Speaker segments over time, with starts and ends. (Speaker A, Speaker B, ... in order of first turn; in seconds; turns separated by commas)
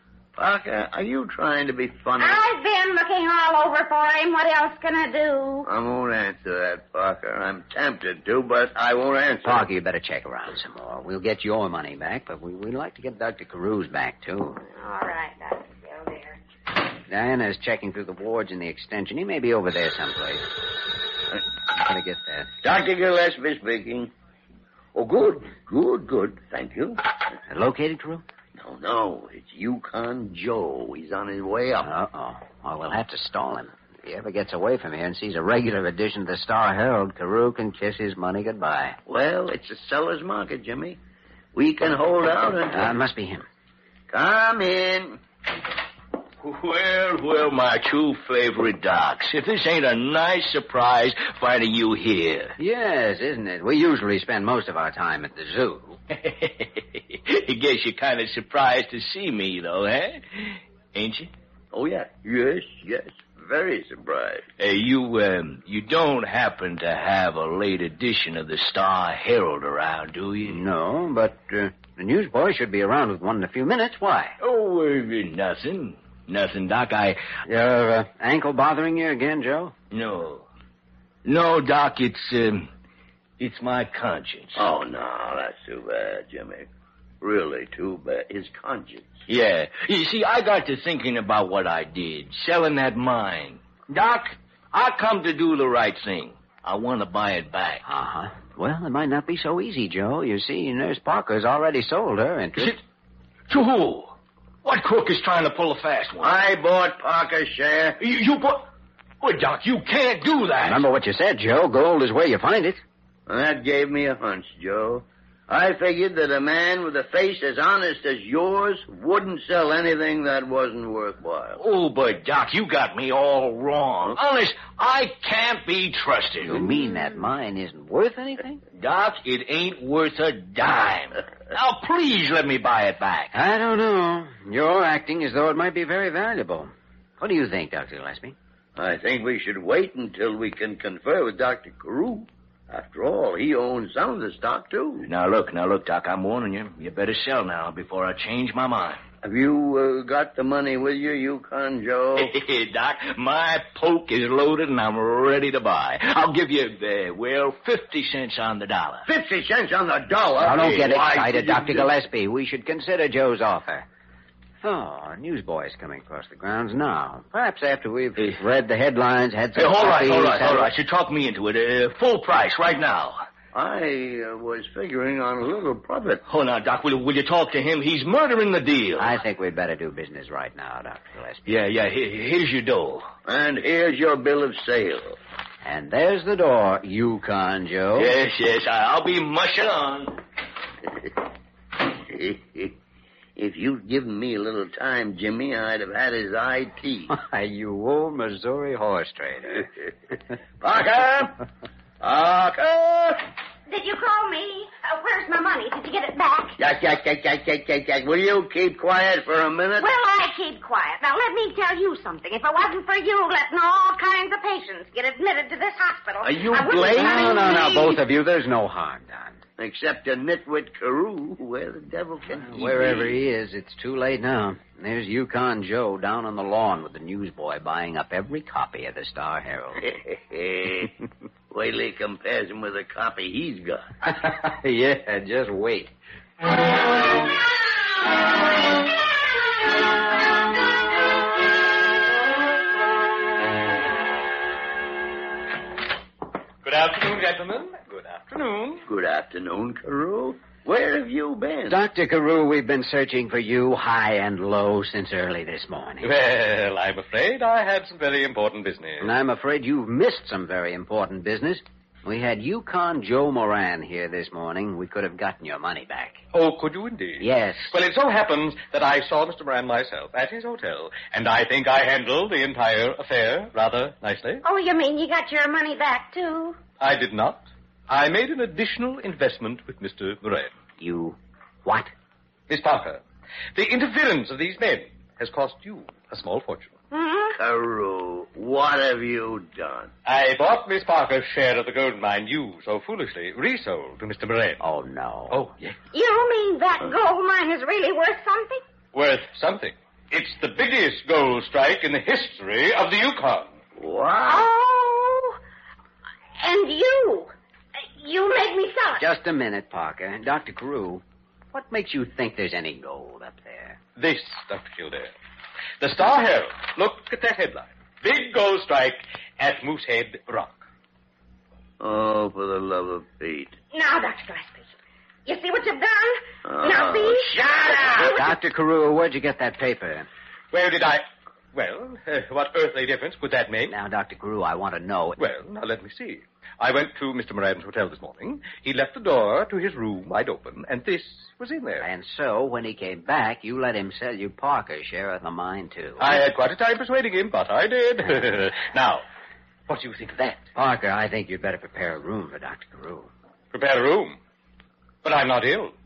Speaker A: 0.3-2.4, Speaker B: 2.2-5.7, Speaker A: 5.6-9.6, Speaker C: 9.4-14.6, Speaker B: 14.6-16.4, Speaker C: 17.1-20.5, Speaker C: 21.7-22.5, Speaker A: 22.6-24.1, Speaker A: 24.9-27.0, Speaker C: 27.5-28.2, Speaker A: 28.6-31.9, Speaker C: 31.8-39.0, Speaker A: 39.1-41.0, Speaker A: 41.5-42.9, Speaker C: 42.7-43.5, Speaker A: 44.1-45.2, Speaker D: 46.4-52.5, Speaker C: 52.6-56.0, Speaker D: 56.1-61.3, Speaker A: 61.7-64.5, Speaker D: 64.6-70.6, Speaker C: 70.4-74.3, Speaker D: 74.4-77.2, Speaker C: 77.5-79.7, Speaker D: 79.9-80.5, Speaker D: 81.2-82.7, Speaker D: 83.4-84.6, Speaker A: 84.6-86.7, Speaker A: 87.2-89.1, Speaker D: 89.3-97.8, Speaker C: 97.8-102.8, Speaker D: 103.5-106.3, Speaker A: 106.2-108.0, Speaker D: 108.0-108.7, Speaker D: 109.2-110.8, Speaker C: 110.6-112.8, Speaker A: 113.3-121.6, Speaker D: 121.6-126.7, Speaker C: 126.4-128.6, Speaker D: 128.8-133.3, Speaker C: 133.3-138.3, Speaker A: 138.8-145.1, Speaker D: 145.0-149.0, Speaker A: 149.2-152.3, Speaker D: 152.2-159.1, Speaker A: 159.1-161.9, Speaker C: 160.4-163.9, Speaker C: 164.6-170.7, Speaker D: 169.5-173.2, Speaker A: 173.5-176.2, Speaker D: 176.3-179.2, Speaker C: 179.0-181.7, Speaker D: 181.5-183.1, Speaker A: 183.2-185.2, Speaker C: 185.6-188.1, Speaker D: 188.0-190.2, Speaker A: 191.8-192.7, Speaker A: 193.3-197.1, Speaker C: 197.1-199.7, Speaker A: 200.6-201.4, Speaker A: 202.0-203.2, Speaker B: 203.7-206.6, Speaker A: 206.6-209.9, Speaker B: 209.8-218.0, Speaker A: 216.2-217.8, Speaker C: 216.9-219.4, Speaker A: 219.6-223.2, Speaker C: 222.3-229.9, Speaker A: 229.8-233.9, Speaker C: 234.0-235.9, Speaker E: 246.6-248.8, Speaker A: 248.8-251.8, Speaker C: 251.7-256.1, Speaker E: 256.0-259.1, Speaker C: 259.0-266.2, Speaker E: 266.3-274.4, Speaker C: 267.2-267.7, Speaker B: 274.4-276.6, Speaker E: 276.8-280.5, Speaker C: 280.8-281.9, Speaker E: 282.5-283.0, Speaker E: 283.5-286.7, Speaker B: 286.9-287.4, Speaker A: 287.3-289.9, Speaker E: 290.0-294.6, Speaker C: 294.6-295.4, Speaker E: 295.3-295.7, Speaker B: 295.9-298.6, Speaker E: 298.9-303.5, Speaker A: 303.8-304.5, Speaker B: 304.2-305.4, Speaker B: 306.4-309.1, Speaker C: 309.0-313.8, Speaker E: 314.0-315.1, Speaker E: 315.8-320.6, Speaker A: 321.8-323.6, Speaker B: 323.7-324.7, Speaker B: 325.2-328.3, Speaker A: 326.4-327.2, Speaker E: 327.4-327.9, Speaker C: 328.0-330.1, Speaker E: 330.5-333.7, Speaker C: 333.7-335.2, Speaker E: 335.2-341.9, Speaker C: 341.8-346.2, Speaker E: 346.0-349.0, Speaker E: 349.7-350.4, Speaker C: 350.6-353.1, Speaker E: 353.5-354.2, Speaker E: 355.0-355.7